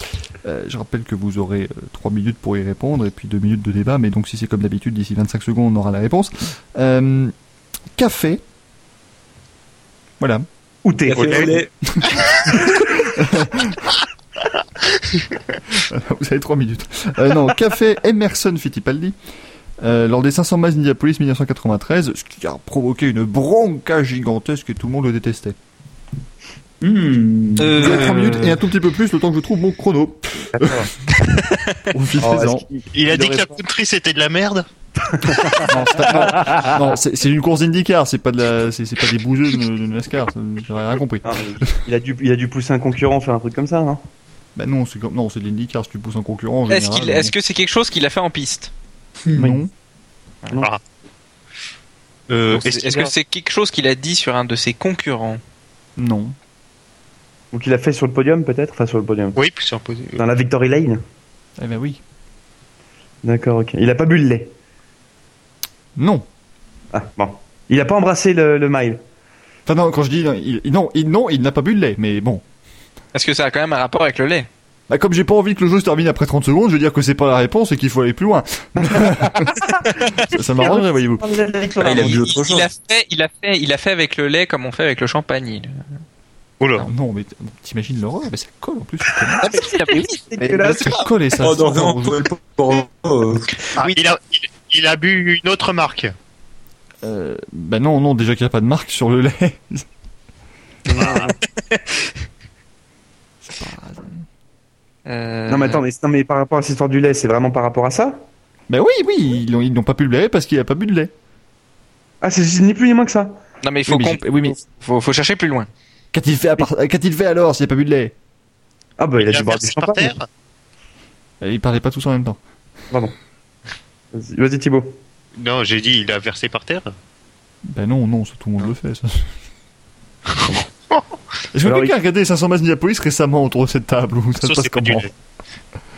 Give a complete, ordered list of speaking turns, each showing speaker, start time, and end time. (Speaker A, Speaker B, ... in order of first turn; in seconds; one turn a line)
Speaker A: 0.4-7.3
Speaker A: 8.0-8.4
Speaker A: 10.2-10.5
Speaker B: 10.8-11.6
Speaker C: 11.0-11.7
Speaker A: 11.9-13.8
Speaker B: 12.7-12.9
Speaker A: 15.8-19.1
Speaker A: 19.8-25.6
Speaker C: 26.8-27.9
Speaker D: 27.6-28.6
Speaker A: 27.8-30.9
Speaker B: 30.5-30.9
Speaker D: 31.2-31.8
Speaker A: 31.9-32.6
Speaker B: 32.2-33.6
Speaker E: 32.9-34.6
Speaker B: 35.0-36.8
Speaker A: 35.6-41.8
Speaker B: 41.2-44.0
Speaker A: 44.5-47.3
Speaker D: 46.7-48.7
Speaker C: 49.2-49.6
Speaker A: 49.4-49.7
Speaker E: 52.3-53.1
Speaker D: 52.5-55.4
Speaker A: 56.0-56.3
Speaker B: 57.5-59.4
Speaker E: 59.4-60.2
Speaker B: 60.2-61.0
Speaker A: 61.6-62.0
Speaker B: 63.2-64.5
Speaker A: 66.0-66.2
Speaker B: 66.9-69.0
Speaker A: 69.7-72.4
Speaker D: 73.1-74.5
Speaker A: 74.9-81.4
Speaker B: 78.9-79.8
Speaker B: 80.6-82.3
Speaker C: 81.8-82.7
Speaker D: 82.0-85.8
Speaker E: 86.6-86.9
Speaker A: 86.8-89.5
Speaker B: 89.4-91.0
Speaker D: 89.4-91.1
Speaker A: 90.7-92.2
Speaker C: 91.4-93.5
Speaker E: 93.8-96.1
Speaker A: 97.0-99.8
Speaker B: 100.9-101.3
Speaker E: 100.9-101.3
Speaker A: 101.0-101.2
Speaker A: 103.5-104.2
Speaker D: 105.0-105.8
Speaker B: 105.5-108.2
Speaker A: 108.7-111.1
Speaker B: 112.2-113.4
Speaker D: 113.6-115.7
Speaker A: 113.8-114.6
Speaker A: 116.1-118.1
Speaker B: 119.0-120.1
Speaker E: 119.2-120.2
Speaker A: 121.4-122.4
Speaker B: 124.1-125.0
Speaker E: 125.4-126.9
Speaker A: 127.7-129.3
Speaker A: 131.5-135.1
Speaker B: 131.6-131.9
Speaker E: 134.4-135.1